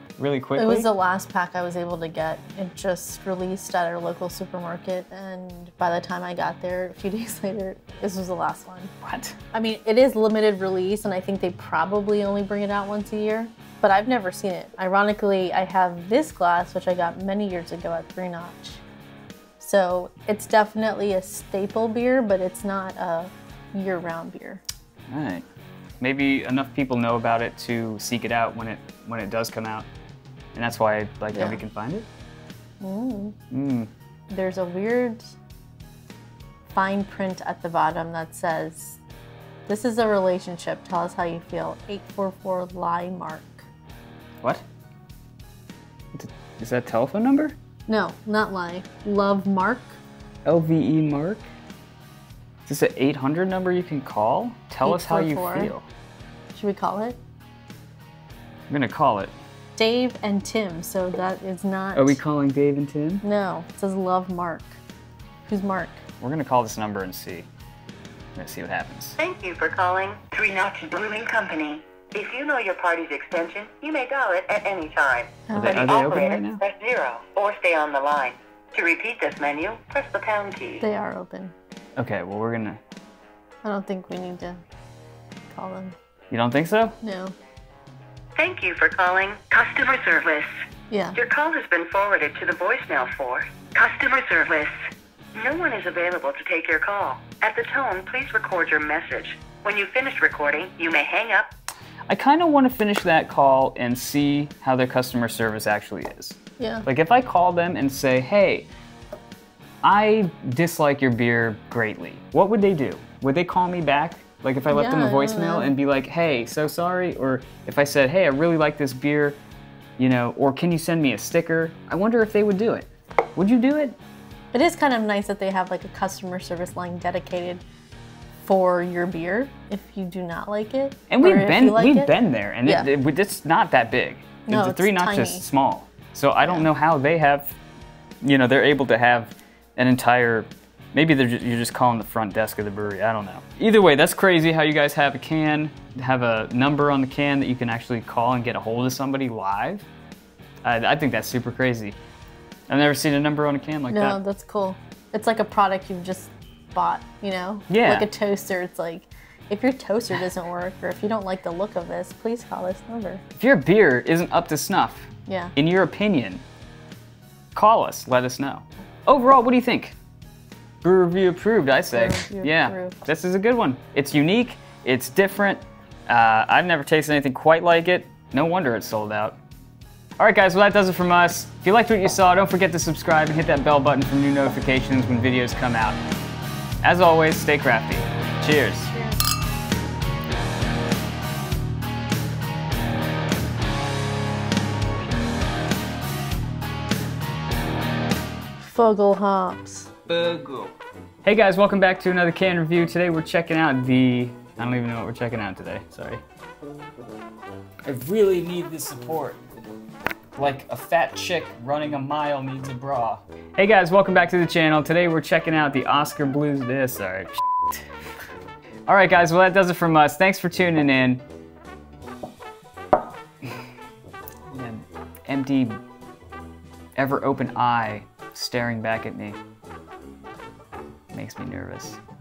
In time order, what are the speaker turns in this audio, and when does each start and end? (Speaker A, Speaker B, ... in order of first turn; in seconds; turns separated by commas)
Speaker A: 0.2-0.9, Speaker B: 0.6-8.9, Speaker A: 9.0-9.4, Speaker B: 9.5-18.8, Speaker B: 19.6-24.6, Speaker A: 25.1-25.5, Speaker A: 26.0-29.9, Speaker A: 30.6-32.1, Speaker B: 31.3-31.6, Speaker B: 32.8-33.4, Speaker A: 33.5-33.9, Speaker B: 34.3-35.4, Speaker B: 36.7-39.0, Speaker B: 39.7-43.7, Speaker A: 46.1-47.6, Speaker B: 47.9-50.0, Speaker A: 50.5-51.5, Speaker A: 52.7-55.9, Speaker B: 54.8-55.7, Speaker B: 56.5-57.2, Speaker A: 58.7-59.3, Speaker B: 59.8-62.2, Speaker A: 62.0-63.2, Speaker B: 63.2-64.8, Speaker B: 65.5-66.0, Speaker A: 66.2-67.5, Speaker A: 68.4-69.2, Speaker C: 69.2-80.8, Speaker B: 75.5-75.9, Speaker A: 75.5-76.6, Speaker B: 80.8-81.5, Speaker A: 82.0-82.8, Speaker B: 83.6-84.6, Speaker B: 85.5-86.0, Speaker A: 86.3-87.0, Speaker B: 87.0-87.3, Speaker C: 88.4-90.5, Speaker B: 90.9-91.2, Speaker C: 91.2-94.7, Speaker C: 95.3-101.5, Speaker A: 102.1-108.7, Speaker B: 106.6-106.9, Speaker A: 109.8-119.4, Speaker B: 114.7-115.7, Speaker A: 120.0-124.0, Speaker B: 124.5-127.6, Speaker B: 128.4-132.9, Speaker A: 131.1-137.6, Speaker B: 134.5-135.4, Speaker A: 138.2-149.9, Speaker A: 150.6-152.0, Speaker A: 152.7-154.2, Speaker B: 153.9-163.2, Speaker A: 157.7-158.1, Speaker A: 163.4-166.4, Speaker B: 165.3-165.5, Speaker A: 167.6-170.0, Speaker A: 170.8-179.4, Speaker B: 171.9-173.0, Speaker A: 180.2-186.0, Speaker A: 186.8-188.9, Speaker B: 188.9-189.2, Speaker B: 198.6-199.9, Speaker A: 200.1-206.2, Speaker A: 207.8-209.4, Speaker A: 210.4-217.9, Speaker A: 218.9-221.2, Speaker A: 224.5-225.8, Speaker A: 227.0-229.4, Speaker A: 231.1-232.0